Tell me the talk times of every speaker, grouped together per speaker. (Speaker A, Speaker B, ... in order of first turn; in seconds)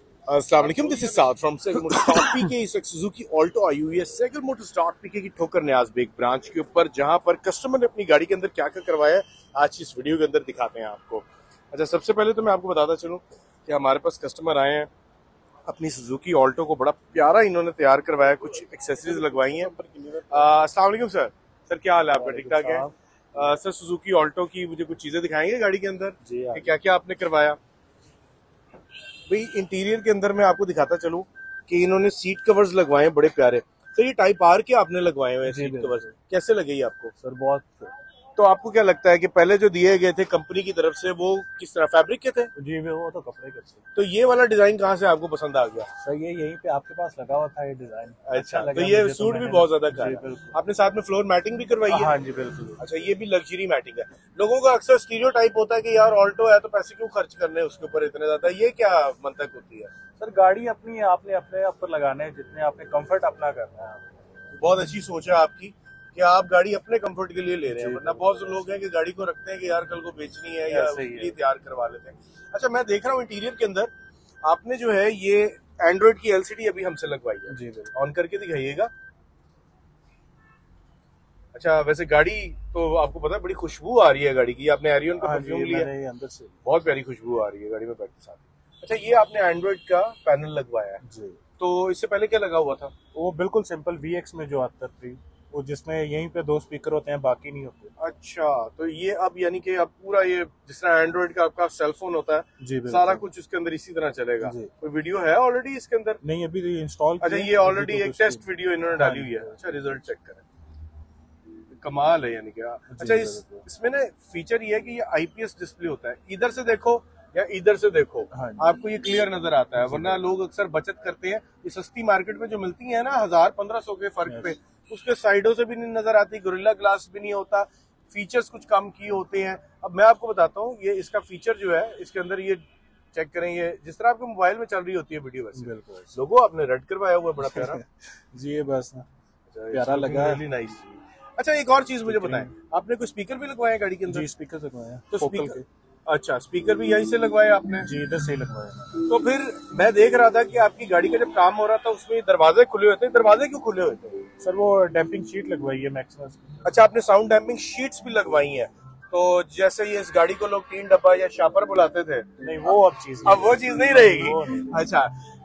Speaker A: 0.3-14.9, 15.7-19.7, 20.3-22.8, 23.3-27.6, 29.3-37.1, 38.4-42.5, 44.0-45.9, 48.2-52.2, 52.8-59.9, 64.6-73.9, 74.4-78.9, 81.5-85.9, 86.6-91.0, 91.6-92.9, 98.0-106.2, 107.2-110.4, 111.8-132.6, 133.1-137.8, 139.5-140.8, 141.4-144.3, 145.1-147.9, 149.0-154.2, 156.6-165.2
Speaker B: 19.8-20.2, 22.1-22.9, 26.2-26.7, 35.5-36.1, 37.2-37.9, 42.5-43.8, 46.0-50.6, 51.9-52.8, 60.2-64.0, 67.7-68.6, 70.7-71.4, 77.5-77.9, 85.2-86.6, 91.0-91.4, 93.1-97.9, 102.6-103.2, 104.4-104.7, 106.2-109.5, 112.9-113.6, 118.3-118.7, 119.8-120.2, 124.3-124.5, 135.6-136.1, 137.4-139.1, 139.7-140.8, 142.1-142.5, 144.1-145.7, 147.8-149.0, 154.4-156.5, 162.4-164.8